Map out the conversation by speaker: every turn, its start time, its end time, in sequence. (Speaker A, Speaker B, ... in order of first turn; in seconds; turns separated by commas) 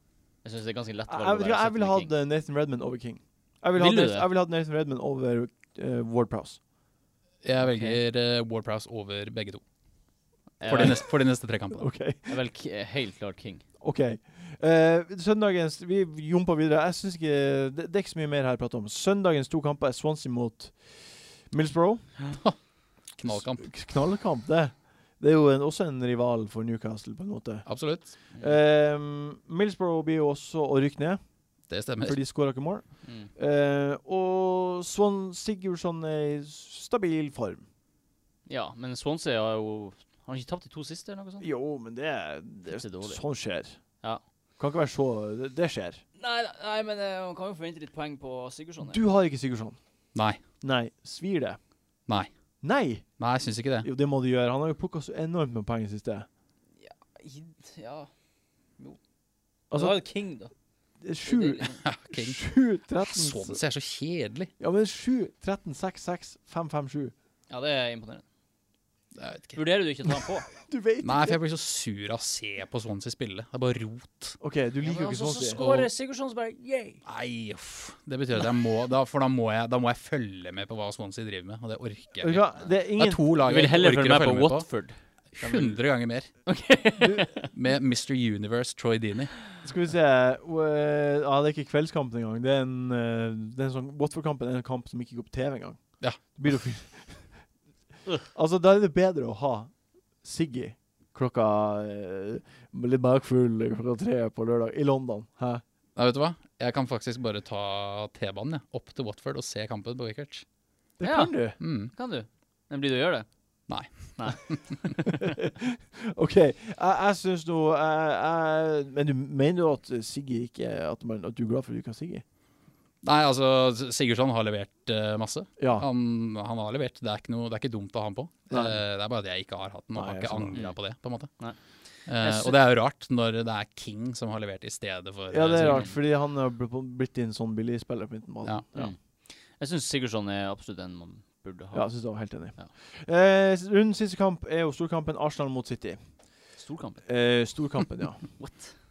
Speaker A: 0.4-2.1, Speaker B: 1.1-6.6, Speaker A: 3.8-4.3, Speaker C: 7.4-9.6, Speaker A: 7.6-8.0, Speaker A: 10.6-11.1, Speaker C: 10.7-11.9, Speaker B: 10.7-11.1, Speaker B: 11.8-12.3, Speaker A: 12.3-13.6, Speaker B: 13.8-22.1, Speaker C: 23.1-23.7, Speaker B: 23.3-27.7, Speaker C: 27.7-28.1, Speaker B: 28.3-31.2, Speaker C: 31.7-32.2, Speaker B: 32.0-37.6, Speaker A: 33.0-33.3, Speaker A: 38.5-41.5, Speaker B: 41.4-43.8, Speaker A: 42.7-43.2, Speaker B: 44.6-46.0, Speaker A: 46.2-49.0, Speaker B: 48.9-49.8, Speaker C: 50.1-50.4, Speaker B: 50.6-51.6, Speaker B: 52.6-53.1, Speaker C: 53.2-53.9, Speaker B: 53.8-56.3, Speaker A: 56.8-58.1, Speaker B: 59.7-60.0, Speaker A: 59.7-60.5, Speaker B: 61.0-63.6, Speaker A: 61.2-61.8, Speaker C: 61.9-64.5, Speaker B: 64.6-67.1, Speaker A: 67.5-68.2, Speaker C: 69.2-69.6, Speaker A: 69.5-70.5, Speaker B: 70.5-71.4, Speaker C: 71.0-74.4, Speaker B: 74.4-75.6, Speaker A: 74.8-77.0, Speaker C: 75.6-75.9, Speaker C: 77.0-84.7, Speaker B: 82.2-83.2, Speaker A: 83.4-85.8, Speaker C: 85.4-86.3, Speaker A: 86.5-87.5, Speaker C: 87.5-89.4, Speaker B: 89.6-97.3, Speaker C: 96.0-96.4, Speaker B: 98.3-105.6, Speaker C: 106.0-110.4, Speaker B: 111.0-111.6, Speaker A: 111.0-113.3, Speaker C: 111.6-111.9, Speaker C: 113.7-114.9, Speaker A: 114.2-115.1, Speaker B: 115.4-122.2, Speaker C: 123.0-131.3, Speaker B: 125.6-125.9, Speaker B: 128.5-128.8, Speaker B: 129.9-130.6, Speaker A: 131.4-132.6, Speaker C: 132.1-135.9, Speaker B: 135.3-138.9, Speaker A: 135.6-135.9, Speaker A: 138.8-141.9, Speaker B: 141.7-146.0, Speaker A: 146.6-147.1, Speaker B: 147.1-148.3, Speaker A: 148.4-148.8